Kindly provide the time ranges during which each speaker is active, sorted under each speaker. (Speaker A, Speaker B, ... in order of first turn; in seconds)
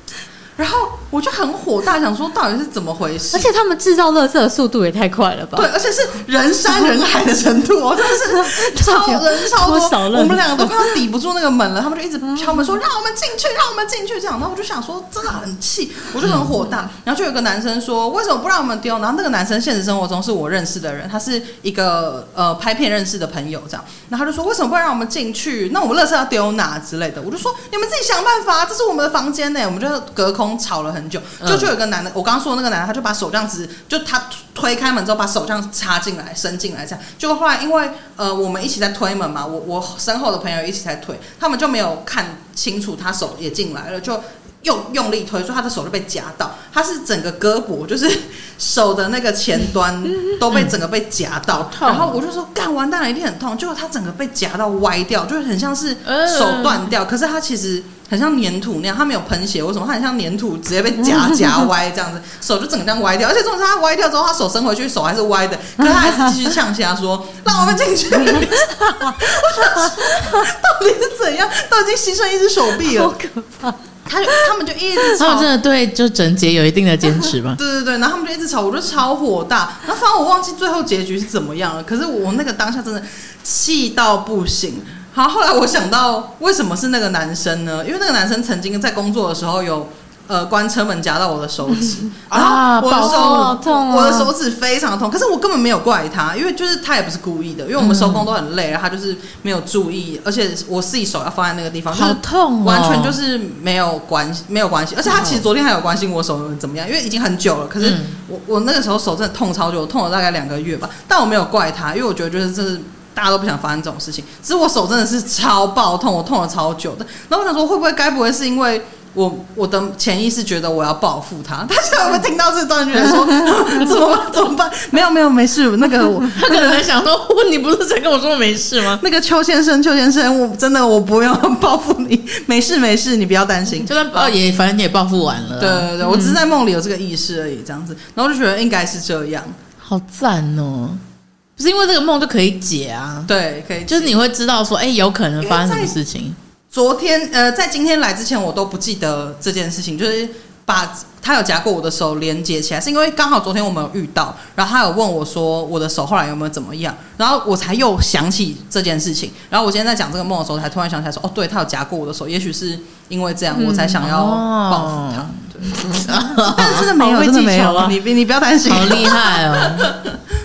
Speaker A: 0.6-3.5, 5.5-73.1, 74.0-75.5, 77.6-126.8, 129.0-134.3, 135.6-139.6, 143.3-144.2, 145.4-145.9, 146.7-165.8, 166.4-170.2
Speaker B: 3.3-5.7, 8.0-11.0, 68.3-70.4, 72.8-73.8, 92.9-94.3, 136.0-136.4, 163.5-164.0, 166.6-168.0
Speaker C: 16.2-16.5, 31.4-31.7, 51.5-52.2, 56.0-56.9, 75.2-77.6, 92.3-93.6, 97.8-98.3, 101.9-103.2, 105.1-105.4, 107.8-108.2, 126.2-129.0, 133.8-135.9, 139.8-141.0, 141.6-143.3, 143.9-146.4, 164.0-166.9, 168.6-169.9